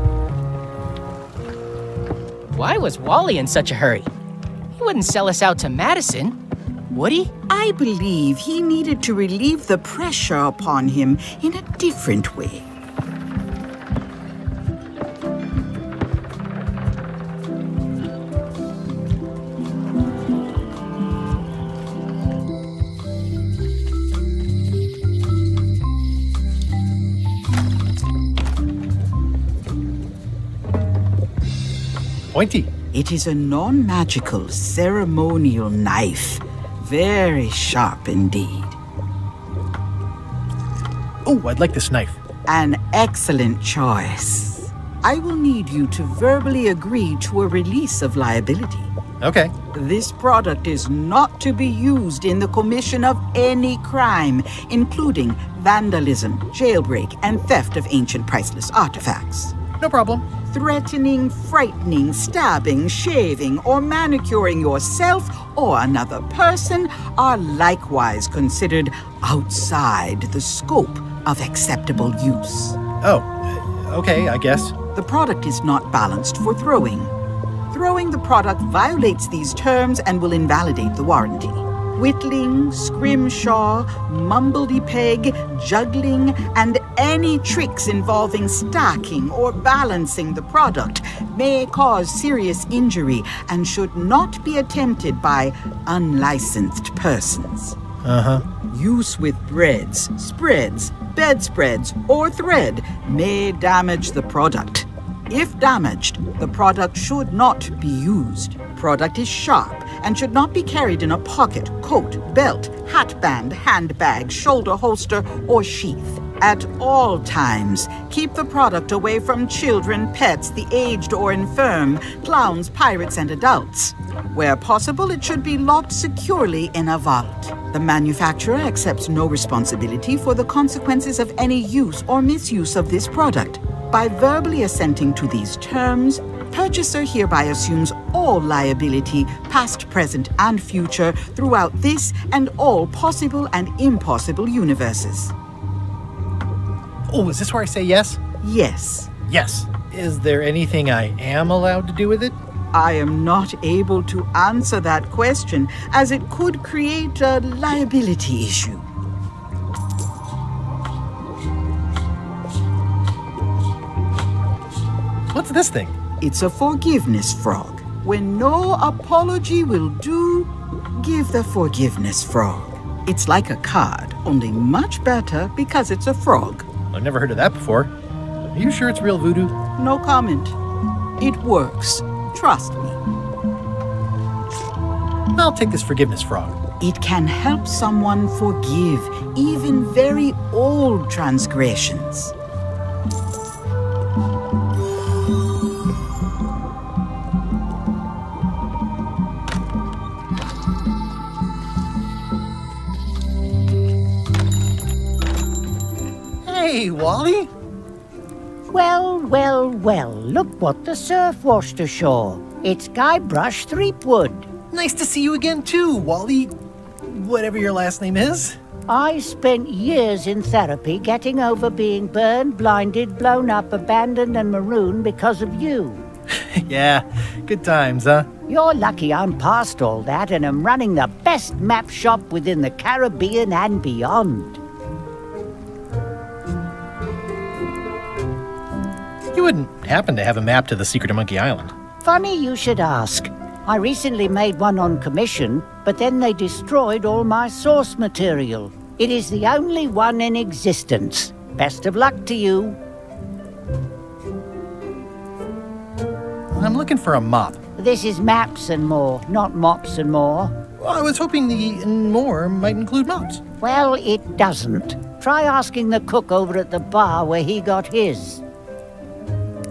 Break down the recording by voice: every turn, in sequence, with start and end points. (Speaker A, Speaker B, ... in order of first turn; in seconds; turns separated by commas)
Speaker A: 2.5-4.1, Speaker A: 4.8-6.4, Speaker A: 6.9-7.3, Speaker B: 7.5-12.7, Speaker C: 32.3-32.7, Speaker B: 32.9-38.8, Speaker C: 41.2-42.2, Speaker B: 42.5-48.9, Speaker C: 49.2-49.5, Speaker B: 49.7-59.6, Speaker C: 59.8-60.3, Speaker B: 60.5-72.8, Speaker C: 73.0-74.7, Speaker B: 74.9-77.1, Speaker B: 77.7-97.8, Speaker C: 98.0-98.5, Speaker B: 98.6-145.3, Speaker C: 147.1-148.2, Speaker B: 148.4-149.1, Speaker C: 149.3-152.4, Speaker B: 152.7-158.9, Speaker C: 165.3-166.0, Speaker B: 166.2-176.7, Speaker C: 176.9-177.9, Speaker C: 178.5-179.6, Speaker B: 179.8-180.6, Speaker B: 181.2-183.0, Speaker C: 185.3-186.6, Speaker B: 186.8-192.3, Speaker C: 206.4-207.5, Speaker D: 208.7-214.5, Speaker C: 214.7-216.5, Speaker C: 217.1-218.6, Speaker D: 218.9-226.0, Speaker C: 226.3-228.3, Speaker D: 228.5-234.6, Speaker C: 239.3-241.7, Speaker D: 242.0-252.8, Speaker C: 256.5-257.6, Speaker D: 257.8-260.5, Speaker C: 260.8-263.4, Speaker D: 263.6-268.4